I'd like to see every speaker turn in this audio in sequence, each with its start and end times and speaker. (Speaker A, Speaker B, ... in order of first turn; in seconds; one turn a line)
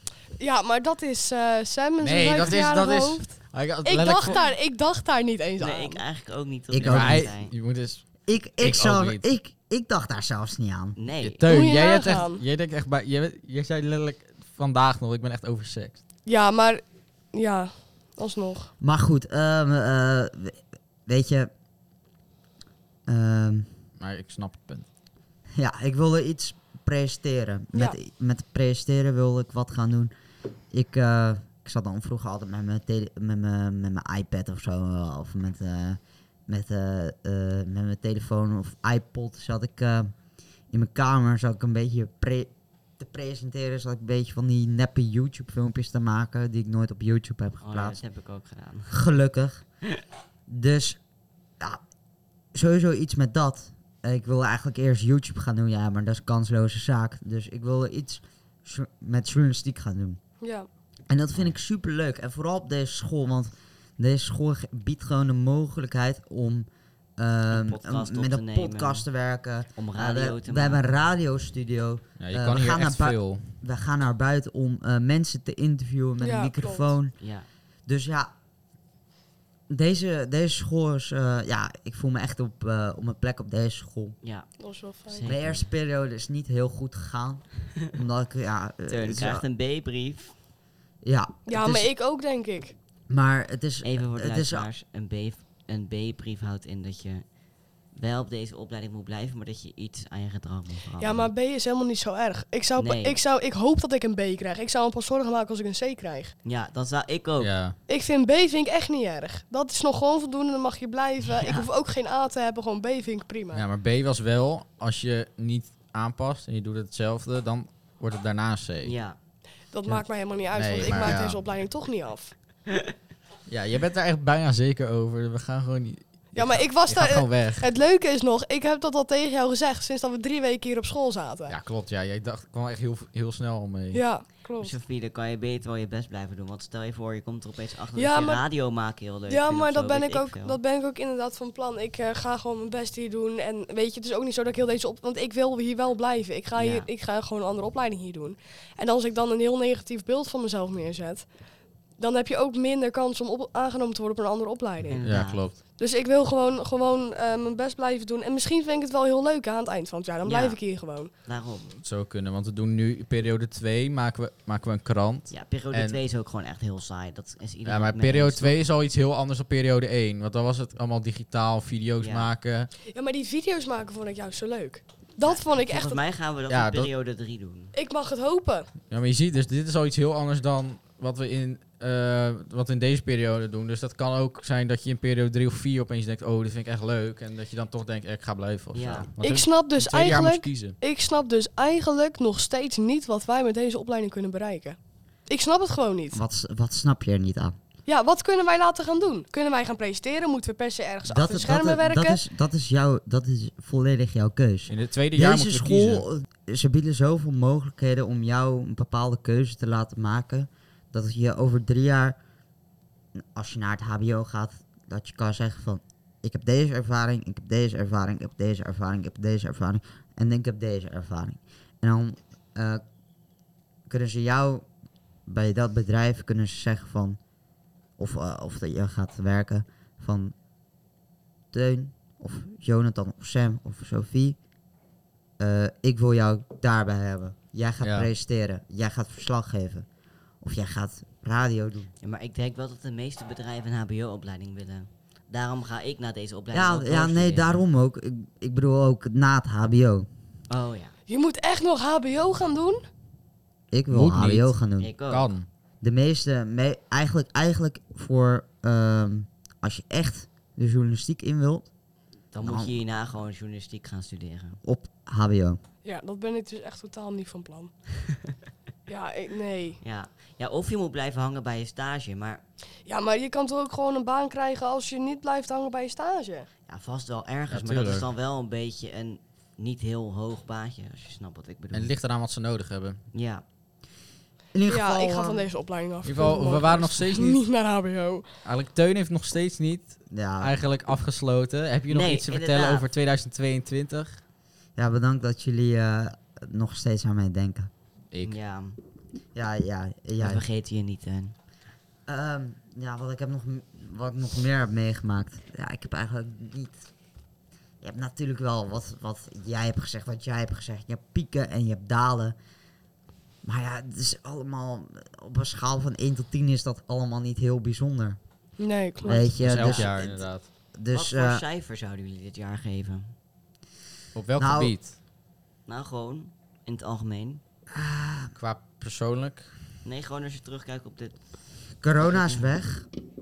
Speaker A: 0.4-6.0
Speaker B: 2.0-4.4
Speaker C: 5.6-7.5
Speaker D: 6.7-7.3
Speaker B: 6.8-9.3
Speaker D: 8.2-11.0
Speaker C: 11.0-11.4
Speaker B: 11.2-16.0
Speaker A: 11.4-12.4
Speaker A: 16.2-16.8
Speaker A: 17.3-18.7
Speaker D: 18.8-21.5
Speaker D: 23.1-23.7
Speaker B: 24.0-24.9
Speaker D: 25.5-30.1
Speaker D: 30.7-40.1
Speaker D: 40.7-48.0
Speaker C: 47.6-49.0
Speaker D: 48.9-49.6
Speaker D: 50.5-51.0
Speaker D: 52.5-60.2
Speaker A: 60.4-60.7
Speaker D: 61.1-77.2
Speaker C: 67.5-69.0
Speaker C: 69.8-70.8
Speaker B: 72.2-73.5
Speaker A: 76.2-76.9
Speaker C: 77.2-77.5
Speaker D: 77.9-78.3
Speaker D: 79.7-84.2
Speaker C: 84.2-84.5
Speaker A: 84.6-85.3
Speaker C: 85.1-85.7
Speaker D: 85.2-89.4
Speaker C: 88.9-90.3
Speaker D: 91.0-91.9
Speaker A: 91.5-92.7
Speaker D: 93.1-94.7
Speaker C: 93.8-97.3
Speaker C: 97.9-101.3
Speaker A: 101.0-106.3
Speaker C: 102.8-103.2
Speaker C: 106.4-107.5
Speaker B: 107.4-107.8
Speaker A: 107.9-113.6
Speaker C: 111.3-111.7
Speaker B: 113.5-118.9
Speaker C: 118.8-119.2
Speaker A: 119.7-122.3
Speaker B: 119.9-121.4
Speaker C: 120.8-121.1
Speaker B: 123.5-127.7
Speaker A: 126.3-131.6
Speaker B: 131.5-134.0
Speaker A: 133.9-134.7
Speaker C: 134.6-140.6
Speaker A: 137.9-138.4
Speaker A: 139.3-151.3
Speaker C: 146.5-146.9
Speaker A: 152.0-155.0
Speaker C: 154.8-155.4
Speaker B: 155.0-155.6
Speaker A: 155.8-161.1
Speaker C: 160.2-160.6
Speaker C: 161.2-161.8
Speaker B: 161.8-166.0
Speaker C: 165.3-168.6
Speaker B: 167.7-172.7
Speaker C: 172.0-172.3
Speaker A: 172.9-176.0
Speaker C: 175.2-177.7
Speaker B: 176.5-176.9
Speaker A: 177.7-178.7
Speaker B: 178.9-190.8
Speaker C: 188.7-189.1
Speaker A: 189.2-196.2
Speaker D: 196.1-197.5
Speaker A: 197.9-202.2
Speaker D: 201.1-212.2
Speaker B: 204.7-206.0
Speaker D: 213.2-222.8
Speaker D: 223.9-224.7
Speaker D: 225.3-227.2
Speaker D: 228.0-230.3
Speaker D: 231.5-234.4
Speaker D: 235.4-239.8
Speaker B: 237.8-238.1
Speaker D: 240.4-241.9
Speaker C: 242.0-247.6
Speaker D: 246.5-250.1
Speaker C: 250.5-250.9
Speaker A: 251.1-252.8
Speaker D: 253.7-254.9
Speaker B: 253.9-254.5
Speaker C: 254.8-255.3
Speaker B: 255.1-255.5
Speaker D: 255.8-261.7
Speaker C: 262.3-264.6
Speaker D: 262.4-262.7
Speaker D: 264.6-265.6
Speaker A: 265.8-267.7
Speaker A: 268.9-269.8
Speaker C: 269.8-272.4
Speaker A: 272.9-276.5
Speaker C: 276.7-281.9
Speaker B: 277.5-278.1
Speaker B: 281.7-283.0
Speaker C: 283.1-283.4
Speaker D: 284.5-285.5
Speaker A: 284.6-288.2
Speaker B: 286.0-287.4
Speaker B: 288.4-294.2
Speaker D: 290.1-290.5
Speaker C: 291.9-292.9
Speaker D: 294.8-297.7
Speaker C: 298.2-298.8
Speaker D: 299.3-300.4
Speaker C: 300.2-301.3
Speaker D: 302.1-306.9
Speaker D: 307.8-312.4
Speaker D: 313.4-318.2
Speaker A: 318.6-319.3
Speaker D: 319.0-321.4
Speaker B: 319.4-320.5
Speaker C: 319.6-319.9
Speaker C: 320.9-323.1
Speaker B: 324.1-324.9
Speaker D: 324.4-324.7
Speaker C: 325.7-327.4
Speaker D: 327.7-328.3
Speaker B: 328.3-329.5
Speaker C: 329.8-331.2
Speaker D: 331.8-332.9
Speaker C: 332.0-332.5